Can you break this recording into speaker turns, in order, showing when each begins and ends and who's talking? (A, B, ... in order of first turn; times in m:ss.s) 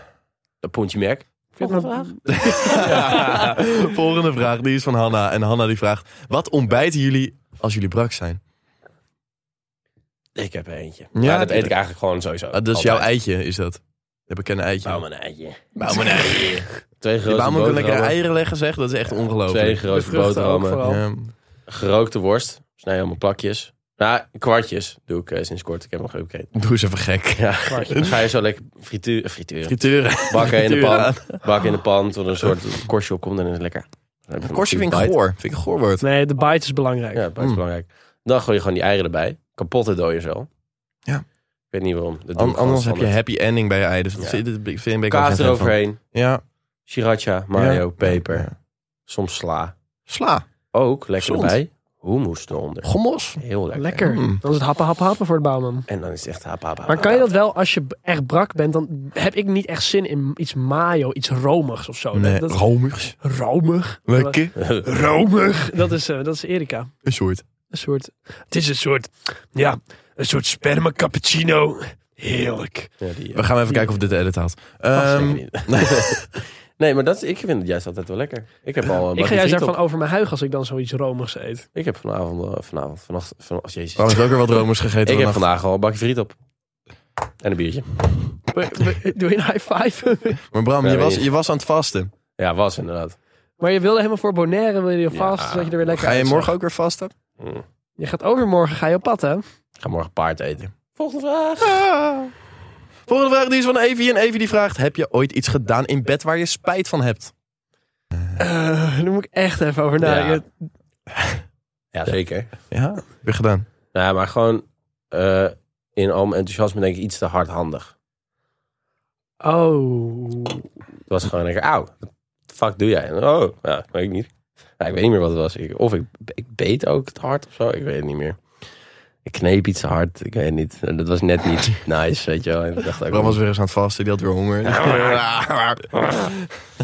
0:00.6-0:03.6 A
0:01.6-0:03.2 B
0:02.3-0:08.4 C
0:10.4-0:13.1 A
0:11.2-0:11.8 C
0:12.5-0:15.0 C
0:14.8-0:18.2 A
0:15.8-0:16.6 C
0:17.2-0:19.8 C
0:19.3-0:20.8 A
0:19.9-0:21.0 B
0:20.8-0:21.3 C
0:21.7-0:26.5 A
0:26.6-0:28.2 C
0:27.4-0:35.2 A
0:27.7-0:28.0 B
0:29.7-0:31.4 C
0:34.4-0:36.0 C
0:36.0-0:37.2 B
0:37.2-0:40.5 A
0:41.7-0:43.1 A
0:42.4-0:46.4 C
0:45.1-0:46.0 A
0:46.9-0:48.5 A
0:47.6-0:48.5 C
0:49.1-0:49.7 A
0:50.1-0:50.5 C
0:50.7-0:54.1 A
0:51.2-0:51.6 C
0:52.8-0:53.4 C
0:53.8-0:55.9 B
0:54.0-0:54.4 C
0:55.9-0:57.3 A
0:56.9-1:02.6 B
1:02.1-1:03.2 C
1:03.2-1:06.9 B
1:04.1-1:04.6 C
1:04.6-1:04.8 A
1:07.0-1:07.4 C
1:07.7-1:12.9 B
1:13.0-1:13.5 A
1:13.3-1:16.4 C
1:15.0-1:19.8 A
1:19.2-1:21.7 B
1:21.8-1:24.4 A
1:24.0-1:25.4 C
1:25.0-1:26.4 A
1:27.4-1:28.4 A
1:28.5-1:30.4 B
1:30.5-1:32.1 C
1:30.8-1:31.3 A
1:32.4-1:33.2 A
1:33.6-1:36.5 B
1:35.1-1:35.7 A
1:35.9-1:37.1 C
1:37.4-1:37.6 A
1:38.0-1:39.4 B
1:39.8-1:41.8 A
1:41.6-1:42.3 C
1:43.1-1:47.3 C
1:48.4-1:50.5 B
1:50.0-1:50.4 A
1:51.1-1:51.4 C
1:51.9-1:52.5 A
1:52.7-1:53.7 C
1:53.9-1:57.9 A
1:59.4-2:00.6 B
2:01.1-2:08.4 A
2:09.2-2:13.4 A
2:13.1-2:16.4 C
2:14.6-2:15.2 A
2:15.9-2:16.3 A